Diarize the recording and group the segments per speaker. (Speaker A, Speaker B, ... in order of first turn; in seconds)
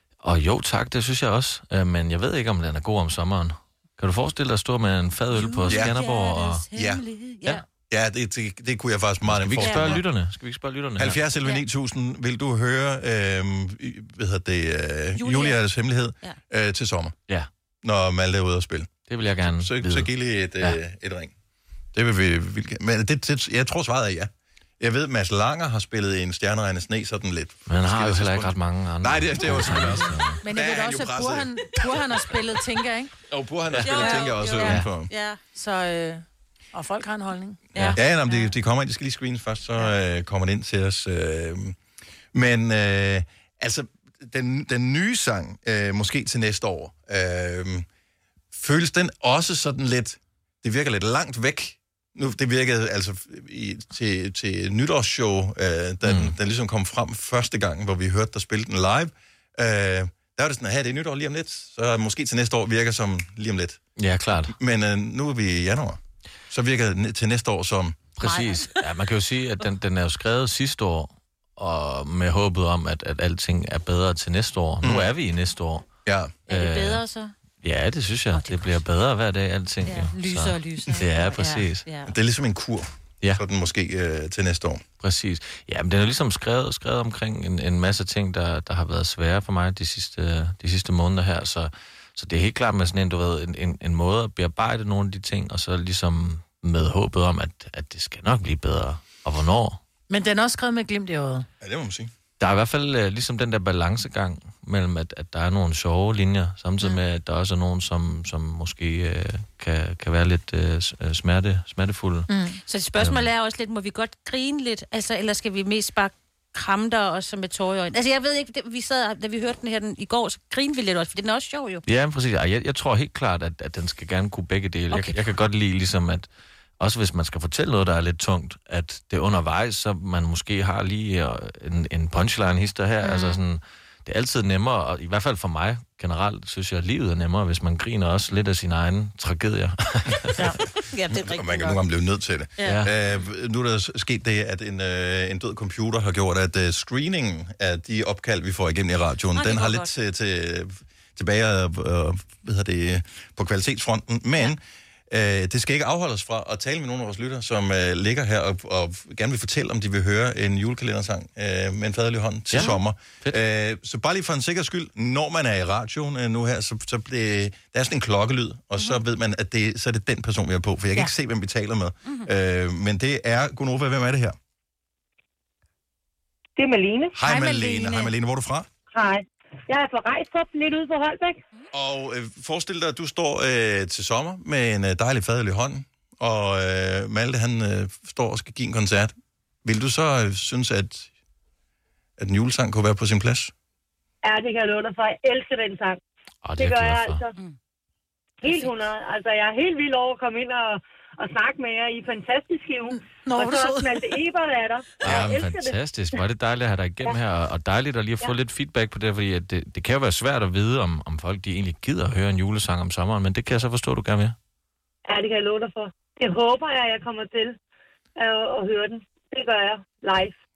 Speaker A: 0.2-6.7, 9.2-11.2, 19.1-20.8, 27.7-30.4, 33.7-34.9, 56.0-56.3, 64.0-64.5, 68.2-75.9, 76.5-77.0, 77.6-81.9, 85.0-99.8, 102.4-112.3, 113.0-113.3, 121.9-126.3, 126.8-140.3, 142.6-142.9, 162.5-163.4, 196.4-197.3, 205.0-214.4
Speaker B: 5.3-7.6, 9.6-10.1, 11.4-11.6, 15.2-15.6, 33.8-35.4, 37.7-38.5, 68.2-68.8, 76.5-77.3, 78.3-78.8, 79.8-82.1, 112.6-121.8, 124.9-125.3, 140.4-141.8, 149.3-149.9, 198.4-198.7
Speaker C: 5.7-6.0, 6.7-7.0, 7.9-10.0, 11.0-17.2, 17.8-21.3, 21.9-31.6, 33.3-35.1, 37.9-41.8, 42.3-47.9, 48.5-63.8, 64.5-66.0, 66.5-68.1, 74.8-75.1, 76.1-76.5, 82.0-84.9, 101.6-102.1, 141.1-174.4, 177.1-178.7, 181.7-189.1, 189.6-191.1, 192.2-193.5
Speaker D: 30.4-33.1, 35.5-37.9, 80.4-81.0, 100.1-101.5, 112.3-112.6, 177.2-178.1, 203.0-204.1
Speaker E: 176.6-177.1, 178.9-181.4, 194.2-196.0, 196.6-197.3, 198.4-205.8, 215.1-217.6, 218.2-220.3